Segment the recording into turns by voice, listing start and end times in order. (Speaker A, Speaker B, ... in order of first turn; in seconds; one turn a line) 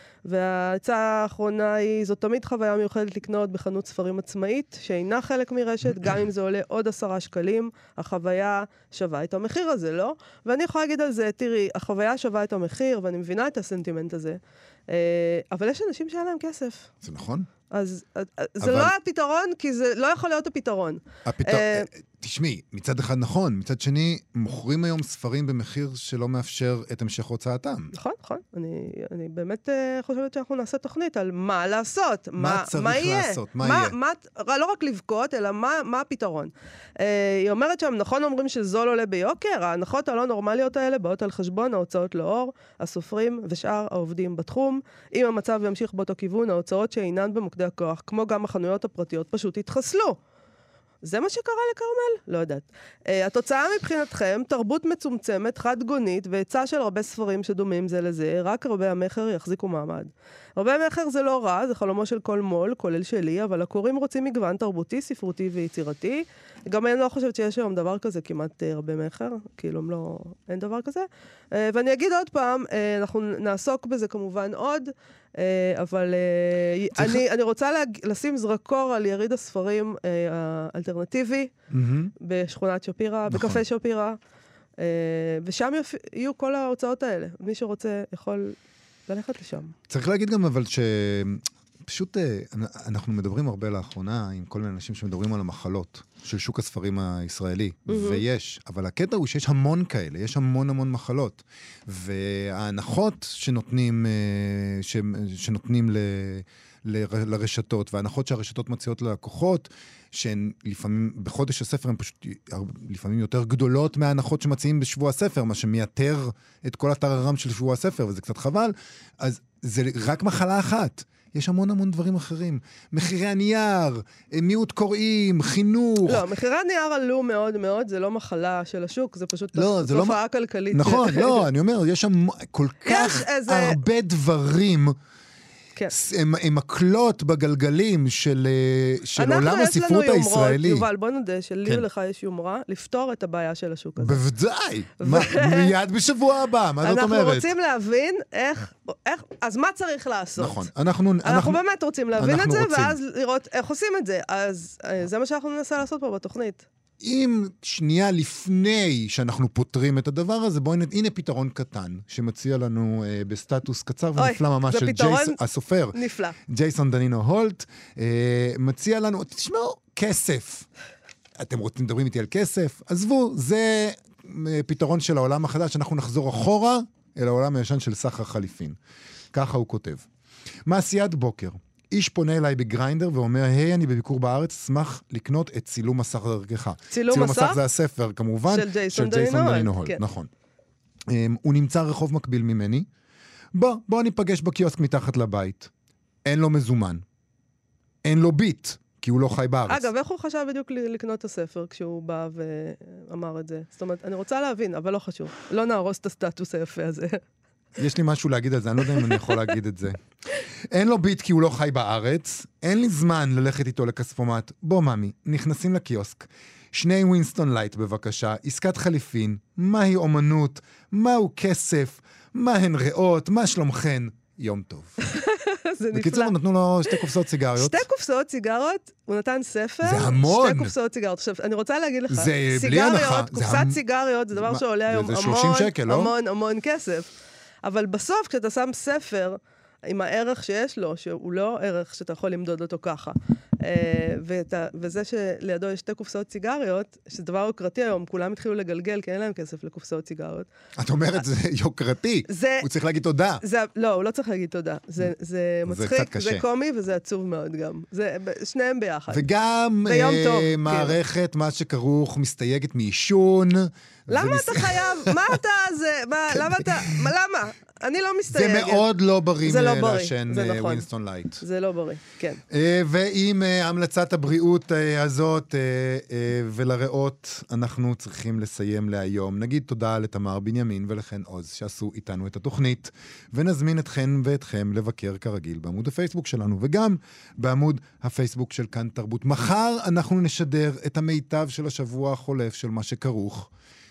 Speaker A: 0.2-16.9
Speaker B: 17.0-17.5
Speaker A: 17.7-21.9
Speaker B: 18.6-18.9
Speaker B: 21.2-27.9
Speaker A: 27.9-50.2
Speaker B: 32.4-33.9
Speaker A: 51.0-81.5
Speaker B: 77.0-77.2
Speaker B: 81.7-82.1
Speaker A: 82.2-84.2
Speaker B: 83.3-83.6
Speaker A: 84.8-88.5
Speaker A: 89.1-89.7
Speaker B: 89.9-126.2
Speaker A: 97.9-98.2
Speaker A: 126.0-131.4
Speaker B: 129.5-130.2
Speaker B: 130.7-134.9
Speaker A: 132.8-133.8
Speaker B: 135.9-140.8
Speaker A: 139.2-144.2
Speaker B: 144.0-147.5
Speaker A: 145.0-145.7
Speaker A: 146.8-150.6
Speaker B: 150.4-151.6
Speaker A: 151.2-156.7
Speaker B: 152.2-153.0
Speaker B: 157.0-170.7
Speaker A: 164.2-165.4
Speaker A: 165.9-166.3
Speaker B: 171.4-178.8
Speaker B: 179.3-180.1
Speaker B: 180.7-190.3
Speaker A: 186.9-187.6
Speaker A: 188.5-190.0
Speaker B: 191.1-192.9
Speaker B: 193.5-195.7
Speaker B: 196.2-197.0
Speaker B: 198.0-199.9
Speaker A: 199.7-207.2
Speaker B: 207.8-210.0
Speaker A: 209.0-209.2
Speaker B: 210.7-225.0
Speaker A: 225.1-226.3
Speaker B: 225.9-227.8
Speaker A: 227.6-237.1
Speaker B: 229.8-230.7
Speaker B: 232.1-233.8
Speaker B: 234.3-236.1
Speaker A: 237.6-250.5
Speaker B: 250.8-253.4
Speaker A: 252.3-252.7
Speaker A: 253.4-259.2
Speaker B: 255.7-256.4
Speaker B: 259.1-265.2
Speaker A: 259.9-260.9
Speaker A: 264.1-268.8
Speaker B: 266.3-267.1
Speaker B: 268.3-271.4
Speaker A: 269.4-270.9
Speaker A: 271.4-272.4
Speaker B: 272.5-293.5